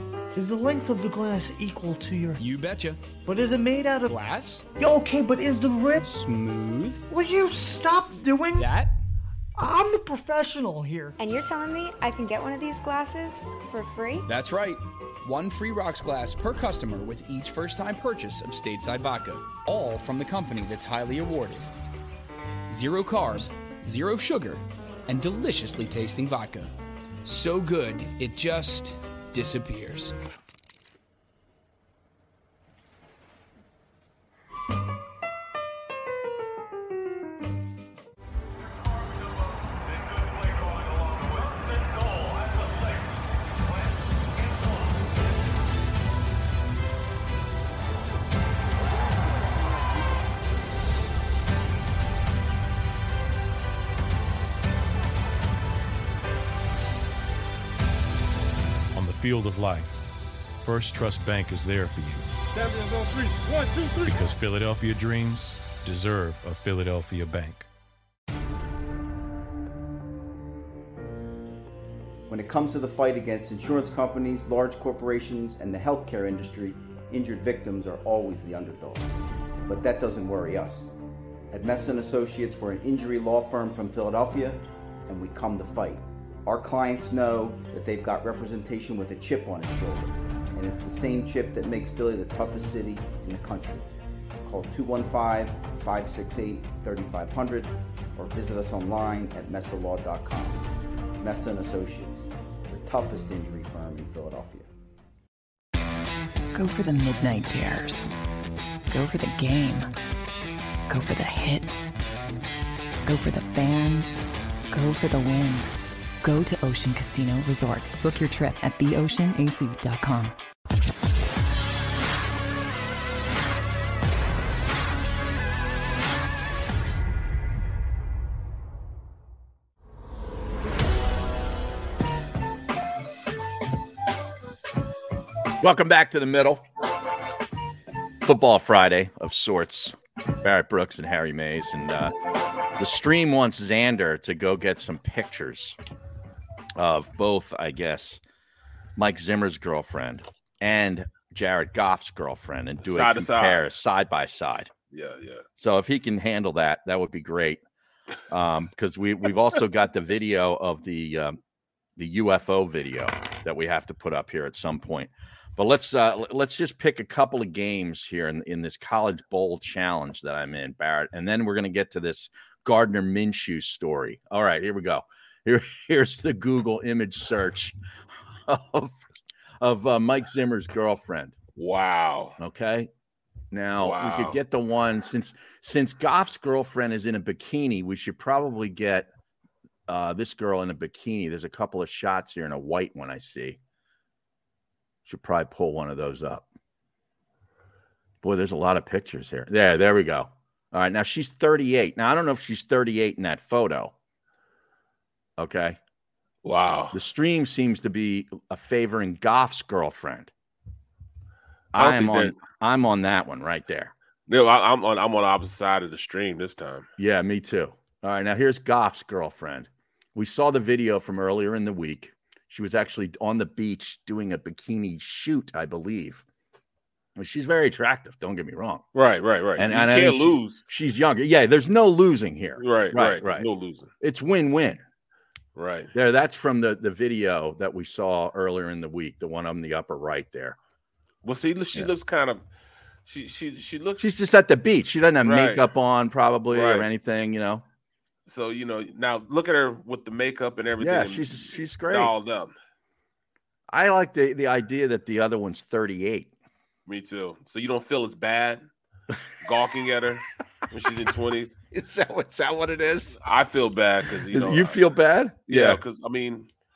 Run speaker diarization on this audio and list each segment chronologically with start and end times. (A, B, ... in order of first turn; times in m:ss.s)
0:00.4-0:02.4 A
0:02.4-0:03.0 B
0:03.2-0:04.2 A
0:04.0-0:04.6 B
0:04.8-0:06.1 A
0:06.0-0:07.0 B
0:07.1-0:08.8 A
0:08.5-0:08.9 B
0:09.6-0:11.2 A
0:11.2-0:14.3 C
0:14.3-0:21.7 B
0:22.7-0:26.7 B
0:27.2-0:30.2 B
0:59.0-0:59.9 D
1:00.6-1:02.3 D
1:04.0-1:07.7 D
1:12.3-1:19.1 E
1:19.7-1:21.0 E
1:21.5-1:33.9 E
1:34.4-1:40.6 E
1:41.2-1:44.7 E
1:46.5-1:48.1 F
1:48.9-1:49.9 F
1:50.9-1:51.9 F
1:53.0-1:55.7 F
1:56.2-2:00.4 F
2:15.6-2:16.6 G
2:18.2-2:22.2 G
2:22.8-2:25.8 G
2:26.8-2:28.2 G
2:29.0-2:34.7 G
2:32.8-2:33.7 H
2:34.9-2:35.4 H
2:35.6-2:37.6 G
2:38.3-2:41.4 G
2:42.0-2:57.8 G
2:58.5-3:01.4 G
3:01.6-3:02.4 H
3:02.4-3:02.9 G
3:03.5-3:09.1 G
3:03.8-3:04.4 H
3:09.9-3:13.6 G
3:15.0-3:16.5 G
3:18.2-3:23.9 G
3:25.4-3:25.8 G
3:26.4-3:27.0 H
3:26.9-3:30.3 G
3:31.7-3:33.9 G
3:31.8-3:32.4 H
3:34.3-3:36.9 H
3:37.0-3:46.2 G
3:47.2-3:48.8 G
3:48.9-3:50.6 H
3:49.6-3:53.5 G
3:52.6-3:53.9 H
3:54.0-3:54.8 G
3:55.6-3:55.9 H
3:55.9-4:00.6 G
4:01.2-4:02.4 H
4:03.1-4:04.1 H
4:04.0-4:07.6 G
4:05.2-4:05.6 H
4:06.5-4:06.9 H
4:08.3-4:12.5 H
4:10.8-4:12.1 G
4:13.7-4:16.3 G
4:16.9-4:18.6 H
4:19.4-4:21.6 H
4:21.7-4:23.2 G
4:23.2-4:24.9 H
4:24.3-4:25.8 G
4:25.5-4:26.5 H